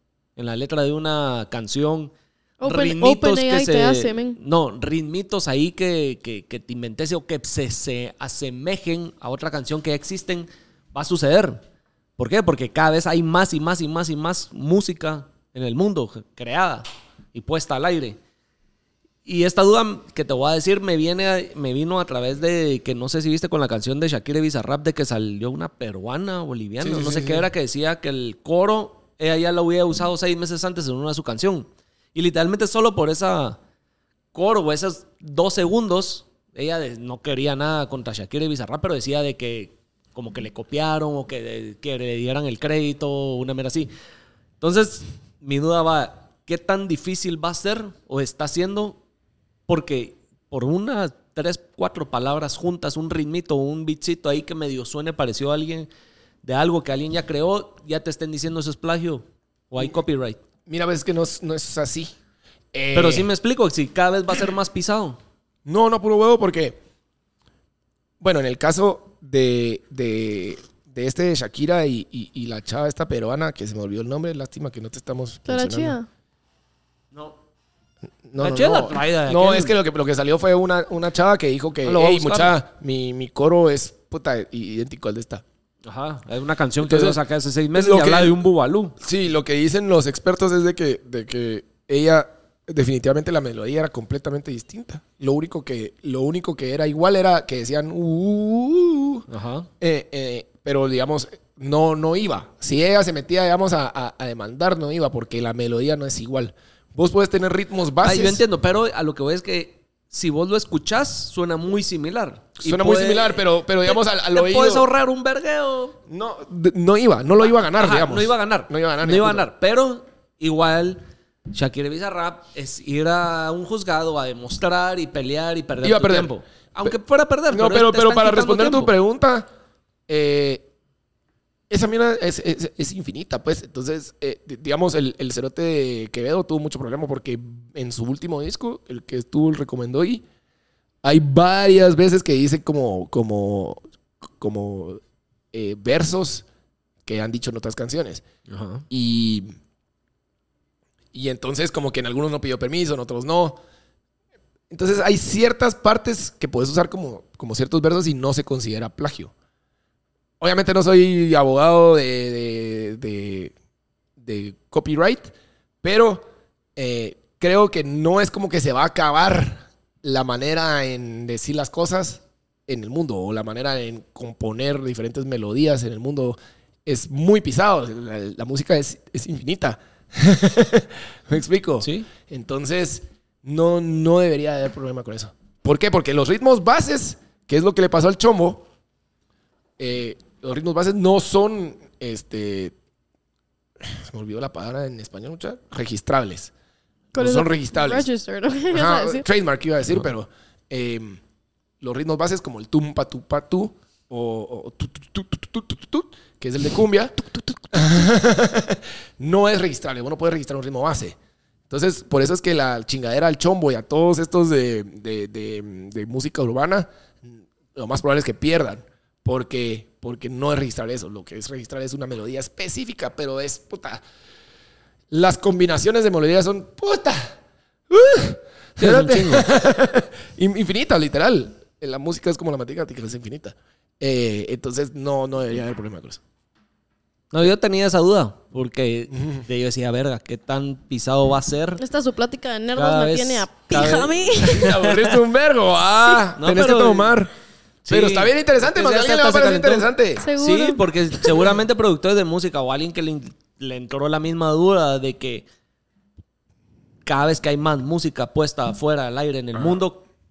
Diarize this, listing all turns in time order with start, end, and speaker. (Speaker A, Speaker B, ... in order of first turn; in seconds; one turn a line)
Speaker A: 0.4-2.1
Speaker B: 2.6-4.4
Speaker A: 2.6-11.6
Speaker A: 12.2-18.2
Speaker A: 19.2-33.6
Speaker C: 26.8-27.5
Speaker A: 34.3-43.9
Speaker A: 44.6-49.0
Speaker A: 49.7-55.9
Speaker A: 56.4-60.4
Speaker C: 60.7-62.1
Speaker C: 62.7-63.3
Speaker A: 62.9-65.2
Speaker C: 65.7-66.8
Speaker C: 68.2-76.0
Speaker B: 75.5-76.1
Speaker C: 78.3-85.4
Speaker A: 78.4-79.8
Speaker A: 81.8-82.5
Speaker A: 85.8-89.0
Speaker C: 86.8-87.2
Speaker C: 87.7-88.4
Speaker C: 89.0-99.3
Speaker A: 99.3-99.7
Speaker C: 99.8-108.4
Speaker A: 108.0-116.0
Speaker C: 112.6-114.9
Speaker C: 116.1-119.5
Speaker A: 117.6-121.0
Speaker A: 121.5-128.9
Speaker C: 125.8-127.0
Speaker C: 127.5-129.5
Speaker C: 130.1-130.7
Speaker C: 131.7-140.2
Speaker C: 141.0-143.8
Speaker C: 144.4-145.0
Speaker C: 145.5-146.4
Speaker C: 147.1-148.2
Speaker A: 148.5-148.8
Speaker C: 148.9-149.5
Speaker C: 151.1-153.6
Speaker C: 154.7-159.3
Speaker C: 160.4-163.5
Speaker C: 164.2-165.3
Speaker C: 165.8-188.7
Speaker A: 181.8-182.1
Speaker C: 189.8-192.7
Speaker C: 193.8-196.5
Speaker B: 197.1-199.2
Speaker C: 197.2-198.1
Speaker C: 198.7-201.2
Speaker C: 201.8-211.2
Speaker C: 211.7-224.0
Speaker C: 225.1-227.4
Speaker C: 227.9-236.2
Speaker A: 228.8-229.5
Speaker A: 237.3-241.8
Speaker C: 239.1-239.4
Speaker B: 241.8-244.7
Speaker A: 242.8-245.2
Speaker C: 244.6-247.3
Speaker A: 246.3-247.2
Speaker A: 247.8-255.5
Speaker C: 247.9-250.2
Speaker B: 250.2-251.4
Speaker A: 257.1-260.0